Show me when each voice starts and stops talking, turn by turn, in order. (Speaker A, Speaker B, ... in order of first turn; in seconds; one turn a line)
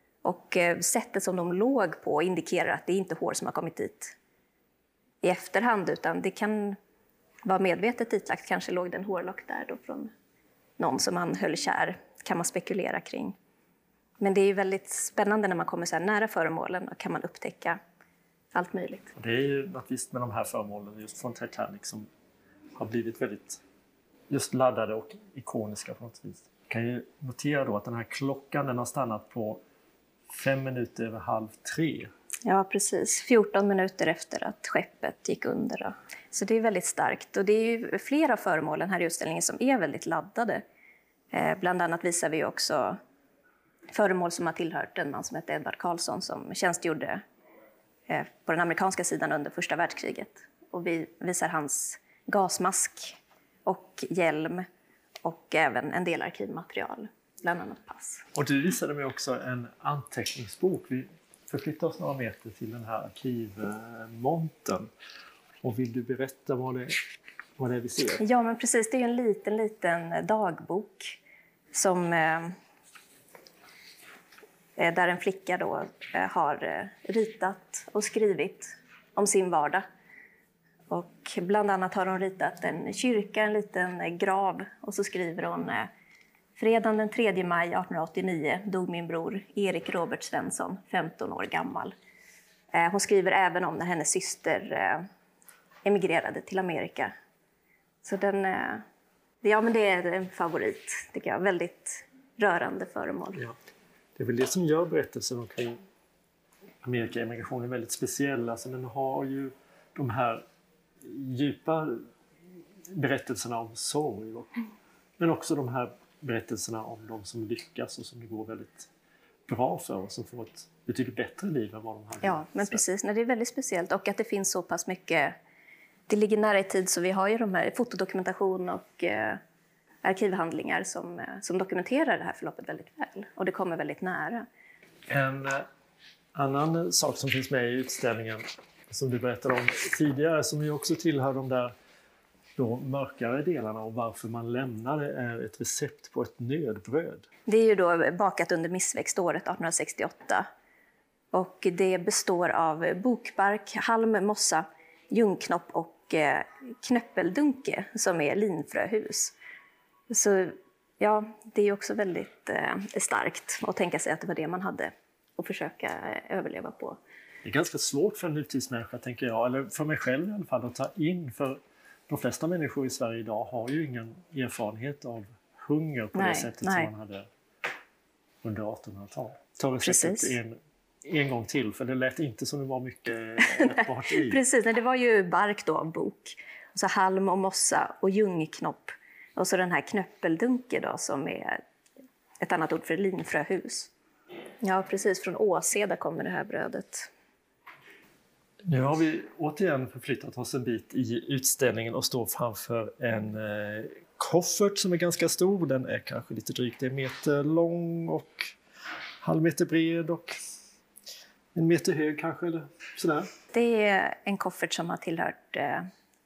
Speaker A: 0.2-4.1
Speaker A: 5.2-6.8
Speaker A: 7.4-10.1
Speaker A: 10.8-13.3
Speaker A: 14.2-17.8
Speaker A: 18.5-19.1
Speaker B: 19.1-22.1
Speaker B: 22.7-23.6
Speaker B: 24.3-29.6
Speaker B: 30.3-32.1
Speaker A: 32.5-40.6
Speaker A: 41.3-43.0
Speaker A: 43.9-47.2
Speaker A: 48.1-54.7
Speaker A: 55.2-58.2
Speaker B: 58.3-64.9
Speaker B: 65.6-66.9
Speaker B: 67.6-68.2
Speaker A: 68.2-71.2
Speaker A: 71.7-72.5
Speaker A: 74.8-79.8
Speaker A: 80.9-85.9
Speaker A: 86.5-91.9
Speaker A: 92.7-95.0
Speaker A: 95.8-97.1
Speaker A: 98.0-98.8
Speaker A: 99.4-103.4
Speaker B: 104.2-105.8
Speaker B: 106.8-110.4
Speaker B: 111.0-112.0
Speaker B: 112.9-114.6
Speaker B: 115.2-118.9
Speaker B: 119.5-122.8
Speaker A: 122.2-125.3
Speaker A: 126.1-129.4
Speaker A: 130.0-134.4
Speaker B: 135.1-135.7
Speaker B: 136.3-141.7
Speaker B: 142.6-147.3
Speaker A: 147.5-150.4
Speaker A: 151.3-159.3
Speaker A: 160.1-167.0
Speaker B: 167.4-177.3
Speaker A: 176.1-176.9
Speaker B: 178.4-184.4
Speaker A: 179.8-180.4
Speaker A: 183.4-191.6
Speaker A: 192.4-193.9
Speaker A: 194.6-197.1
Speaker B: 198.7-208.5
Speaker B: 209.2-210.3
Speaker B: 211.5-213.3
Speaker A: 213.5-215.9